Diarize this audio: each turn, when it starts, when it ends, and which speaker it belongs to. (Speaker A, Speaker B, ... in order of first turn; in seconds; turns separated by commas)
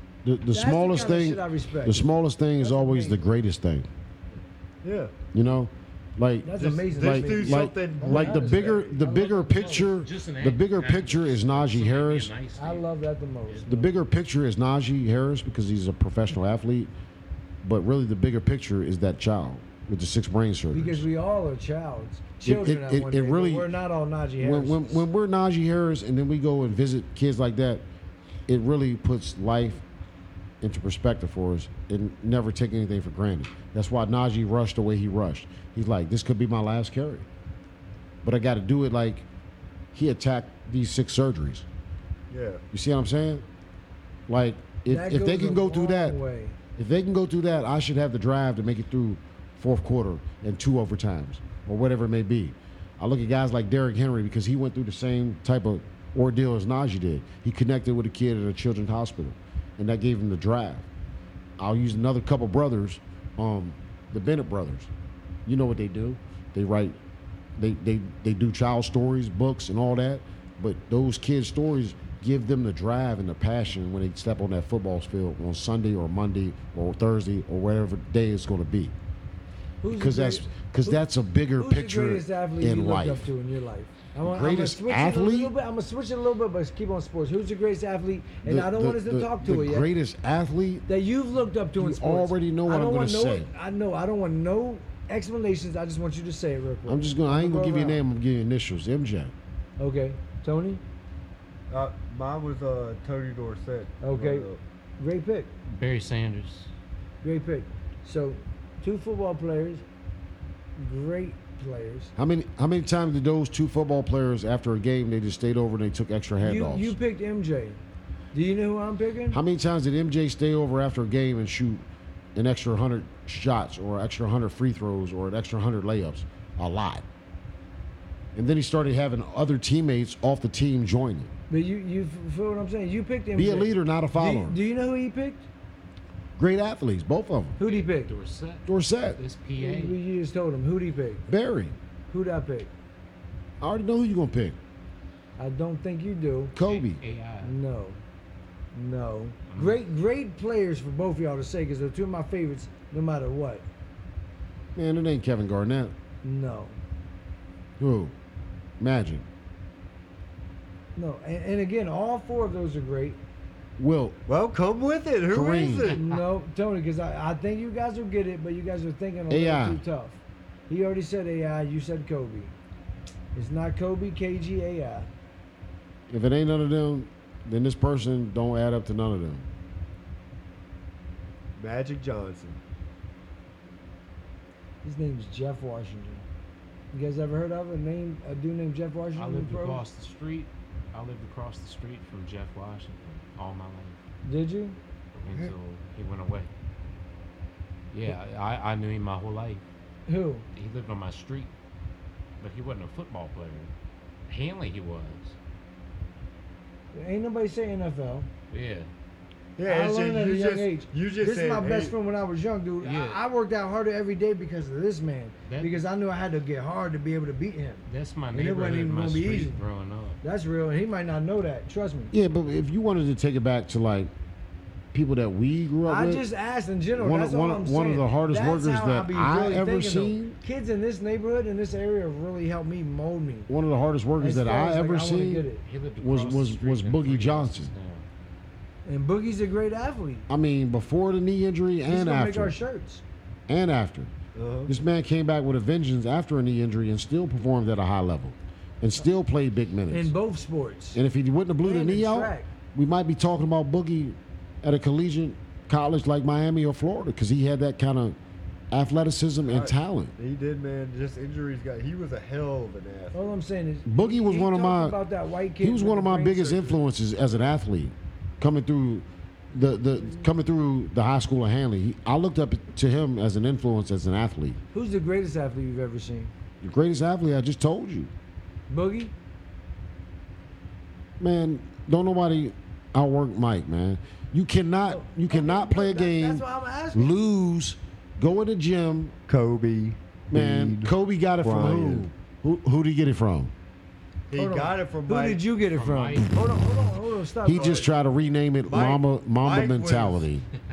Speaker A: 0.2-3.9, Speaker B: 0.5-3.2, Speaker C: 4.8-5.1, Speaker A: 5.3-12.3, Speaker B: 6.4-9.8, Speaker C: 6.6-9.0, Speaker D: 9.0-12.8, Speaker B: 12.6-13.9, Speaker A: 13.7-16.9, Speaker A: 17.6-21.1, Speaker B: 20.7-25.1, Speaker A: 22.4-23.7, Speaker A: 24.4-27.8, Speaker A: 28.5-29.8, Speaker A: 30.6-37.3, Speaker A: 38.2-39.3, Speaker A: 39.9-41.6, Speaker C: 42.3-42.6, Speaker A: 42.7-43.4, Speaker A: 44.3-46.2, Speaker B: 44.9-46.6, Speaker A: 46.8-60.9, Speaker A: 61.6-64.9, Speaker A: 65.5-67.0, Speaker A: 67.6-78.9, Speaker B: 79.8-81.0, Speaker A: 79.9-83.3, Speaker B: 81.5-89.9, Speaker A: 84.2-85.5, Speaker A: 88.4-90.9, Speaker B: 90.9-98.0, Speaker A: 91.8-93.5, Speaker A: 96.9-99.3, Speaker B: 99.8-100.8, Speaker C: 101.7-104.6, Speaker B: 104.0-104.5, Speaker B: 105.0-105.5, Speaker D: 105.7-106.7, Speaker B: 107.2-109.8, Speaker B: 110.8-112.1, Speaker A: 112.2-116.9, Speaker B: 116.4-117.8, Speaker B: 118.3-119.4, Speaker A: 119.3-121.8, Speaker A: 122.3-127.0, Speaker A: 128.3-131.3, Speaker B: 131.5-135.4, Speaker A: 133.4-134.6, Speaker A: 136.4-137.6, Speaker B: 137.6-138.1, Speaker D: 137.6-140.0, Speaker A: 138.7-139.2, Speaker B: 139.6-141.3, Speaker A: 141.3-141.8, Speaker B: 142.1-142.7, Speaker A: 143.6-144.6, Speaker B: 145.4-146.6, Speaker A: 146.6-147.0, Speaker D: 146.6-147.5, Speaker B: 147.4-148.0, Speaker B: 148.7-153.7, Speaker D: 149.5-149.8, Speaker A: 154.7-155.9, Speaker B: 156.2-156.8, Speaker A: 157.8-158.1, Speaker A: 158.8-159.3, Speaker B: 160.9-163.2, Speaker A: 163.8-164.2, Speaker C: 164.3-166.0, Speaker A: 165.3-166.0, Speaker B: 165.9-172.6, Speaker A: 169.3-169.8, Speaker B: 173.3-175.1, Speaker A: 176.1-179.4, Speaker C: 181.6-182.6, Speaker B: 184.8-186.2, Speaker B: 186.9-189.8, Speaker D: 189.1-194.0, Speaker B: 194.2-194.8, Speaker D: 195.2-196.5, Speaker D: 197.9-199.6, Speaker B: 200.1-200.4, Speaker D: 200.6-201.5, Speaker D: 202.4-203.7, Speaker D: 204.3-205.4, Speaker B: 206.9-208.3, Speaker D: 208.5-208.9, Speaker C: 209.6-211.9, Speaker B: 209.7-219.6, Speaker D: 212.8-213.2, Speaker D: 215.5-215.8, Speaker D: 217.9-220.2, Speaker B: 220.2-222.1, Speaker A: 222.1-224.1, Speaker A: 224.9-226.2, Speaker B: 225.8-233.5, Speaker A: 226.9-230.4, Speaker A: 233.5-235.4, Speaker B: 234.2-235.6, Speaker D: 235.6-238.0, Speaker A: 236.0-237.7, Speaker B: 238.9-240.3, Speaker A: 240.3-242.6, Speaker B: 241.9-243.0, Speaker A: 243.5-244.1, Speaker C: 244.3-244.7, Speaker A: 244.7-250.1, Speaker B: 249.9-251.0, Speaker A: 250.9-258.2, Speaker B: 251.6-252.5, Speaker A: 258.7-260.1, Speaker C: 259.4-263.3, Speaker B: 263.1-266.8, Speaker A: 263.9-265.0, Speaker A: 265.6-274.6, Speaker B: 274.7-276.3, Speaker A: 276.6-278.1, Speaker B: 278.7-279.1, Speaker A: 281.2-286.4, Speaker B: 284.9-287.2, Speaker A: 286.9-289.1, Speaker C: 289.3-292.1, Speaker A: 290.3-293.5, Speaker C: 294.3-295.4, Speaker B: 294.3-297.9, Speaker D: 295.7-296.4, Speaker A: 297.4-300.4, Speaker C: 297.5-297.9, Speaker C: 298.7-300.3